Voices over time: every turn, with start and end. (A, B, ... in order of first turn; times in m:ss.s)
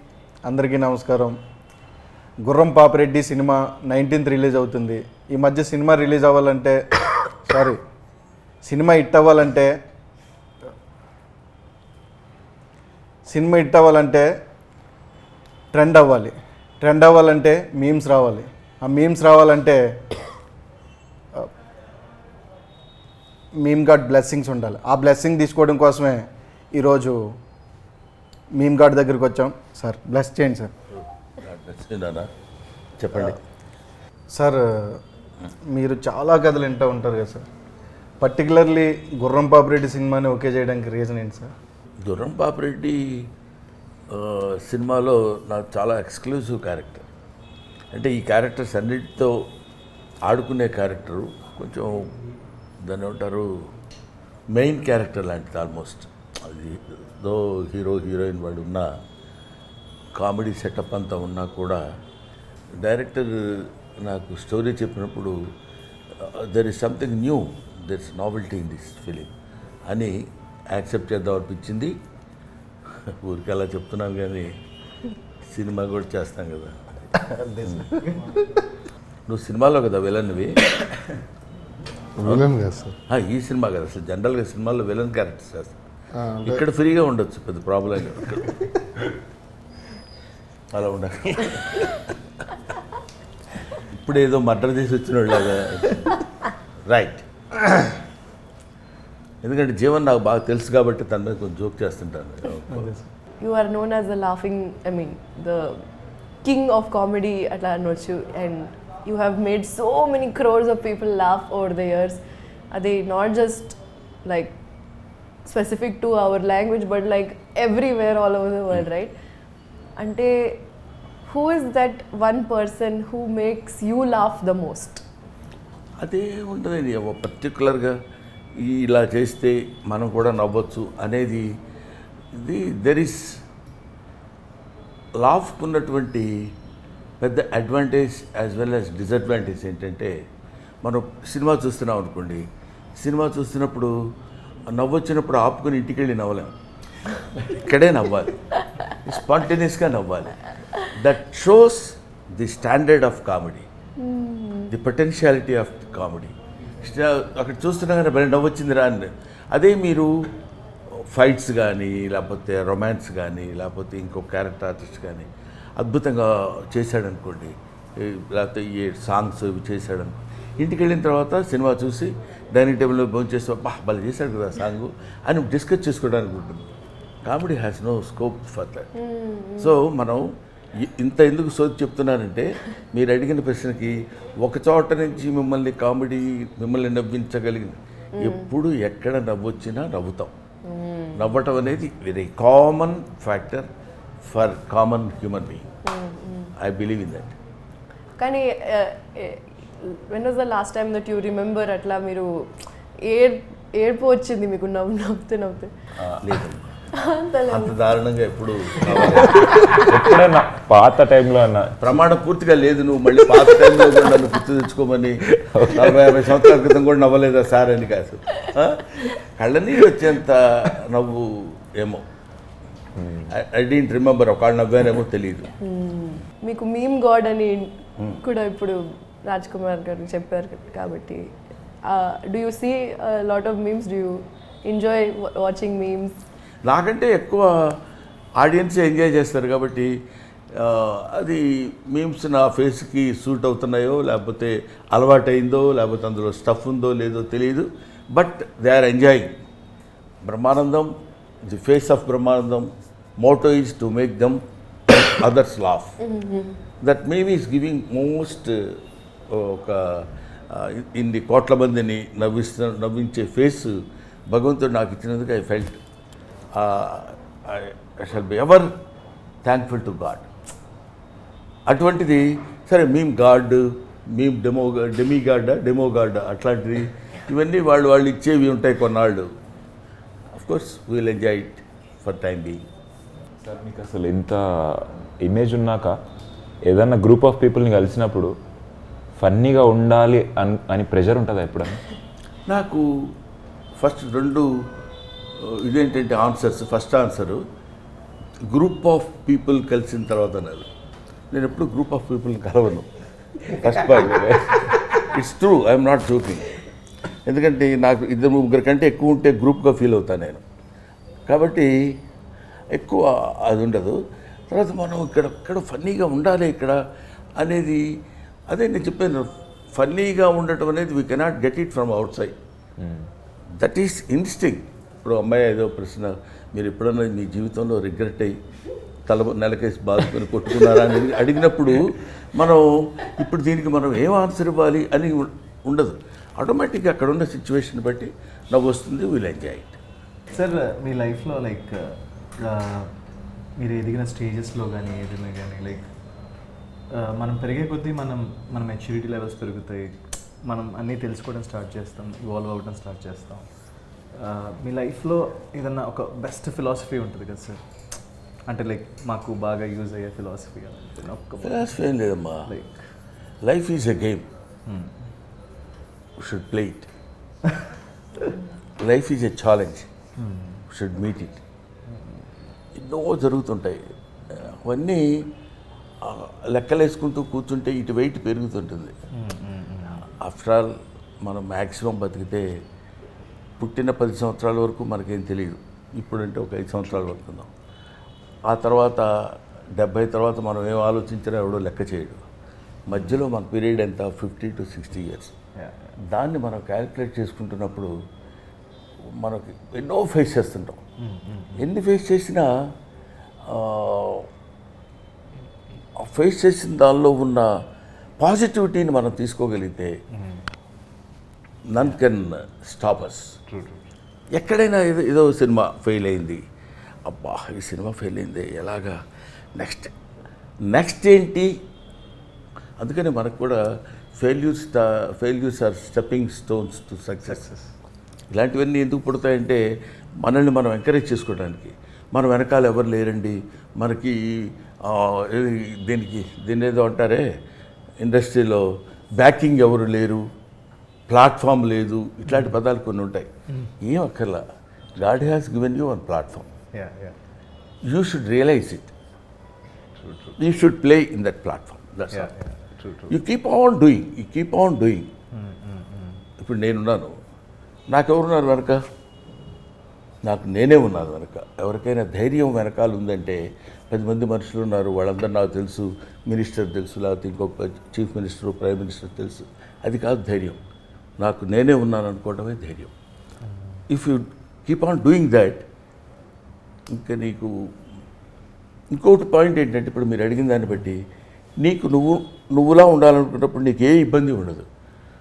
0:00.5-0:01.4 A
0:02.5-0:06.8 A
0:07.4-0:07.8 A
0:08.6-0:09.8 A
0:13.3-0:14.3 A
0:15.7-0:19.8 A
0:23.6-0:27.2 A
0:28.6-0:30.7 A
0:31.4-0:32.3 B
0:33.0-0:33.4 B
0:34.3-0:35.0 A
0:35.7-0:37.5 A
0:38.2-0:41.5 A
0:42.0-0:43.1 B
0:44.1-0:47.0 B
0:47.9-0:49.4 B
0:50.2-0:52.2 B
0:52.9-0:53.5 B
0:54.5-0:58.9 B
1:00.2-1:01.8 B
1:02.8-1:05.4 B
1:06.2-1:09.3 B
1:09.9-1:10.2 B
1:10.7-1:11.9 B
1:13.1-1:14.5 B
1:15.4-1:17.0 B
1:17.4-1:18.2 A
1:19.3-1:20.6 B
1:22.2-1:25.8 B
1:26.3-1:28.6 B
1:30.7-1:32.1 B
1:33.8-1:36.1 B
1:36.9-1:37.2 B
1:39.4-1:42.9 B
1:42.8-1:43.0 A
1:43.4-1:45.8 C
1:46.4-1:52.2 C
1:52.7-1:54.5 C
1:55.4-1:59.1 C
2:00.0-2:00.6 C
2:01.3-2:05.0 C
2:06.0-2:08.0 B
2:08.6-2:11.5 B
2:12.4-2:13.4 B
2:15.2-2:16.5 B
2:17.2-2:20.1 B
2:20.8-2:22.5 B
2:23.0-2:23.9 B
2:24.7-2:26.5 B
2:27.4-2:28.4 B
2:29.0-2:33.7 B
2:34.0-2:34.7 C
2:34.7-2:40.1 B
2:41.1-2:56.6 B
2:57.3-2:58.9 B
2:59.0-2:59.7 C
2:59.6-3:00.2 B
3:00.8-3:10.3 B
3:08.2-3:08.5 C
3:10.6-3:11.4 C
3:11.2-3:13.7 B
3:14.3-3:15.7 B
3:15.8-3:16.5 C
3:16.6-3:17.3 B
3:18.2-3:22.5 C
3:23.1-3:25.7 C
3:26.0-3:26.8 B
3:27.0-3:27.8 C
3:27.5-3:29.4 B
3:29.8-3:31.8 D
3:31.8-3:35.2 B
3:35.5-3:36.0 D
3:35.7-3:42.0 B
3:43.0-3:43.3 D
3:43.3-3:45.5 B
3:45.6-3:51.2 C
3:51.9-3:56.2 C
3:56.6-3:57.5 B
3:58.4-3:59.9 B
4:00.6-4:09.4 B
4:10.2-4:10.9 B
4:11.5-4:16.0 B
4:16.0-4:16.6 C
4:16.8-4:23.8 B
4:24.3-4:25.8 B
4:26.5-4:28.7 B
4:29.4-4:30.3 B
4:31.7-4:39.3 B
4:40.4-4:42.6 B
4:43.4-4:46.0 D
4:46.7-4:48.3 D
4:49.2-4:51.8 D
4:52.5-4:53.1 B
4:53.8-4:54.5 B
4:55.4-4:57.4 B
4:58.5-5:00.7 B
5:01.3-5:02.9 B
5:03.5-5:06.5 B
5:03.6-5:04.8 D
5:07.3-5:10.4 B
5:11.3-5:12.0 B
5:12.7-5:14.0 B
5:14.5-5:16.8 B
5:17.4-5:17.8 B
5:18.5-5:22.4 B
5:22.8-5:23.1 D
5:23.6-5:28.4 B
5:29.1-5:39.8 B
5:40.3-5:42.9 E
5:43.6-5:45.9 E
5:46.9-5:53.5 E
5:54.2-5:57.6 E
5:58.5-6:01.8 E
6:01.4-6:02.5 B
6:02.4-6:02.8 E
6:03.4-6:04.3 B
6:04.7-6:04.9 E
6:06.2-6:06.9 B
6:08.8-6:09.9 B
6:10.2-6:10.6 E
6:10.7-6:11.4 B
6:11.9-6:12.2 E
6:12.8-6:15.3 B
6:16.0-6:18.9 B
6:19.1-6:20.0 E
6:20.1-6:20.7 B
6:21.2-6:22.5 B
6:23.6-6:27.5 B
6:28.5-6:32.2 B
6:32.9-6:35.3 B
6:35.6-6:35.9 E
6:36.1-6:37.9 B
6:39.2-6:40.8 B
6:41.0-6:41.7 E
6:41.6-6:42.5 B
6:43.5-6:44.3 B
6:46.0-6:47.5 B
6:48.2-6:50.0 B
6:50.1-6:50.4 E
6:51.7-6:53.2 B
6:53.5-6:53.8 E
6:54.3-6:56.4 B
6:57.1-6:59.0 B
6:59.6-6:59.9 B
7:00.7-7:01.5 B
7:02.8-7:03.6 B
7:04.2-7:07.5 B
7:07.2-7:07.7 E
7:08.3-7:09.6 B
7:10.2-7:17.3 B
7:18.0-7:18.6 B
7:19.2-7:20.2 B
7:21.1-7:23.3 B
7:23.8-7:24.4 B
7:25.0-7:26.5 B
7:26.7-7:27.2 E
7:27.9-7:28.9 B
7:30.0-7:30.4 E
7:30.4-7:32.3 B
7:32.1-7:33.1 E
7:33.1-7:35.1 B
7:35.3-7:36.2 E
7:36.4-7:37.1 B
7:37.9-7:38.8 B
7:40.2-7:50.6 B
7:51.2-7:52.9 B
7:53.4-7:53.8 E
7:53.9-7:55.7 B
7:56.9-7:57.5 B
7:58.9-8:01.0 B
8:01.6-8:04.7 B